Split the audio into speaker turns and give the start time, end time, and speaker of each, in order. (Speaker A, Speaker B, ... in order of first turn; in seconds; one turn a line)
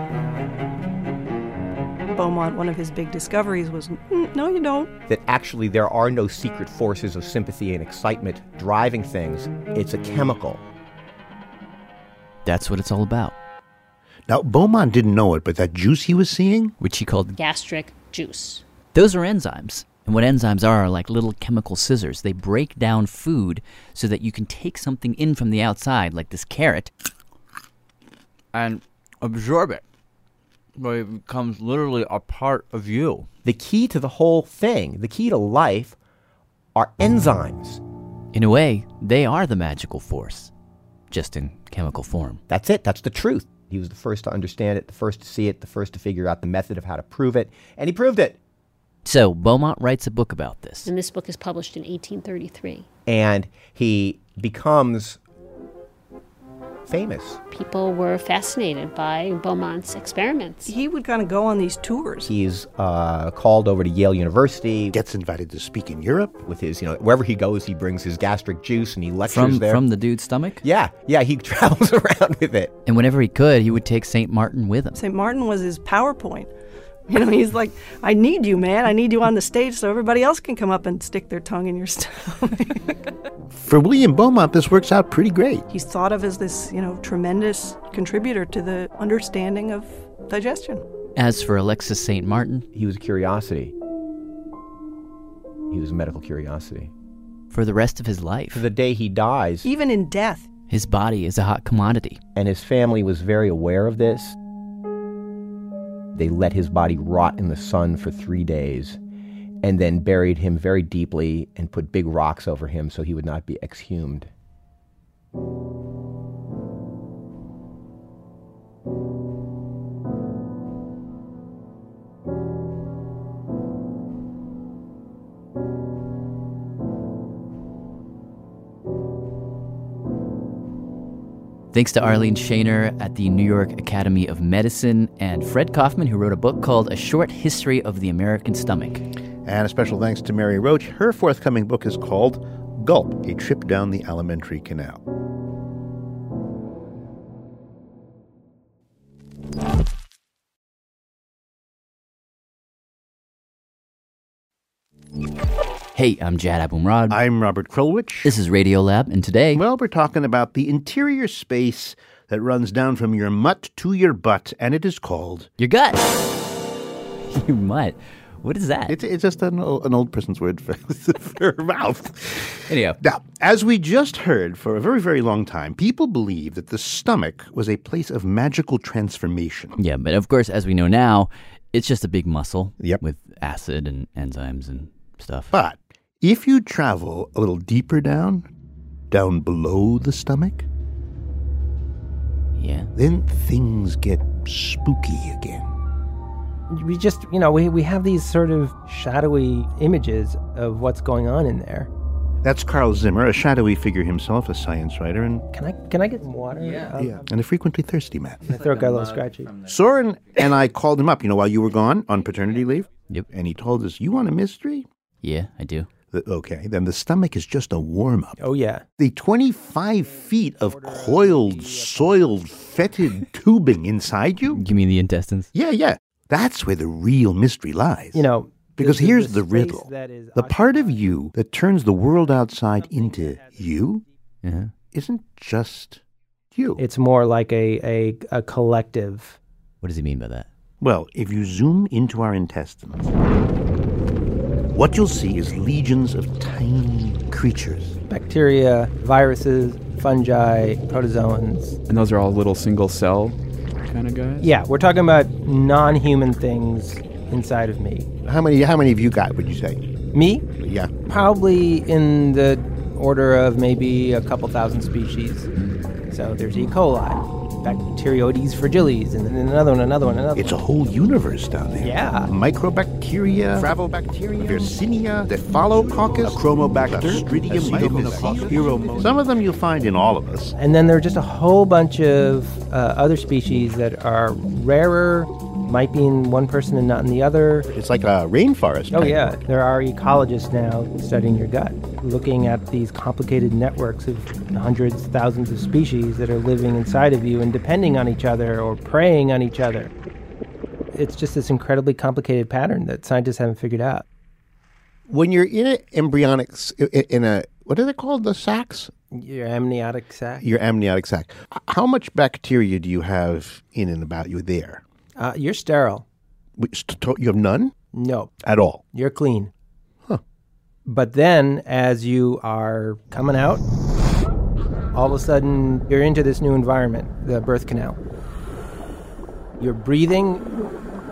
Speaker A: 2.1-4.9
Speaker B: 5.1-10.6
Speaker C: 12.4-13.3
Speaker D: 14.3-16.7
Speaker C: 16.8-17.4
Speaker E: 17.4-18.6
Speaker C: 18.9-26.9
Speaker C: 28.5-29.8
Speaker C: 30.8-33.3
Speaker B: 33.4-36.0
Speaker B: 36.7-37.8
Speaker C: 38.3-40.5
Speaker C: 41.1-42.4
Speaker B: 42.5-48.4
Speaker C: 49.0-50.9
Speaker E: 50.8-52.9
Speaker B: 53.1-55.2
Speaker B: 56.9-57.4
Speaker E: 57.5-60.7
Speaker A: 60.6-62.3
Speaker B: 62.3-65.0
Speaker D: 64.9-66.4
Speaker B: 66.4-69.8
Speaker C: 69.3-70.6
Speaker B: 70.6-72.7
Speaker C: 72.8-75.0
Speaker A: 74.9-76.5
Speaker A: 77.1-82.9
Speaker D: 83.5-85.7
Speaker A: 85.7-90.8
Speaker C: 91.2-92.7
Speaker B: 92.7-93.7
Speaker B: 95.7-96.9
Speaker C: 97.5-98.6
Speaker B: 98.5-99.7
Speaker A: 99.6-100.5
Speaker C: 100.7-102.2
Speaker B: 102.3-104.4
Speaker B: 106.1-109.0
Speaker B: 109.6-114.3
Speaker C: 131.7-139.0
Speaker D: 139.4-145.0
Speaker C: 155.9-157.2
Speaker D: 157.1-158.3
Speaker C: 158.2-159.6
Speaker D: 159.5-165.5
Speaker C: 165.6-166.3
Speaker C: 167.3-168.9
Speaker D: 168.9-179.8
Speaker C: 172.7-173.0
Speaker C: 179.8-185.5
Speaker D: 185.5-188.5
Speaker D: 189.1-190.7
Speaker C: 192.6-192.9
Speaker D: 192.9-195.7
Speaker F: 196.7-201.9
Speaker D: 202.4-205.5
Speaker F: 205.5-207.1
Speaker D: 207.0-208.5
Speaker F: 208.4-209.6
Speaker D: 209.6-214.8
Speaker C: 215.2-215.9
Speaker D: 216.1-218.4
Speaker F: 218.4-218.8
Speaker D: 219.0-224.6
Speaker F: 220.6-222.2
Speaker C: 224.5-225.5
Speaker D: 225.5-228.2
Speaker F: 228.1-231.2
Speaker D: 228.8-234.0
Speaker F: 232.7-234.0
Speaker C: 234.4-234.7
Speaker D: 234.9-236.0
Speaker D: 236.5-236.8
Speaker F: 236.8-239.4
Speaker C: 239.8-240.5
Speaker D: 240.8-243.1
Speaker D: 244.7-248.0
Speaker F: 248.1-251.8
Speaker G: 251.8-254.5
Speaker F: 254.4-258.1
Speaker D: 258.2-259.8
Speaker F: 260.1-260.4
Speaker D: 260.6-260.9
Speaker F: 261.1-265.5
Speaker F: 266.1-270.5
Speaker D: 270.3-273.8
Speaker F: 271.8-272.3
Speaker B: 273.6-274.7
Speaker D: 274.3-280.5
Speaker C: 277.5-278.6
Speaker F: 280.6-287.7
Speaker D: 287.7-289.3
Speaker F: 288.9-299.9
Speaker F: 300.9-304.0
Speaker D: 305.1-308.9
Speaker F: 309.1-310.4
Speaker D: 310.4-314.8
Speaker F: 315.2-316.0
Speaker D: 316.6-317.7
Speaker F: 317.9-318.3
Speaker D: 318.4-318.8
Speaker F: 318.9-319.5
Speaker F: 320.9-323.6
Speaker F: 324.9-328.0
Speaker F: 329.6-330.5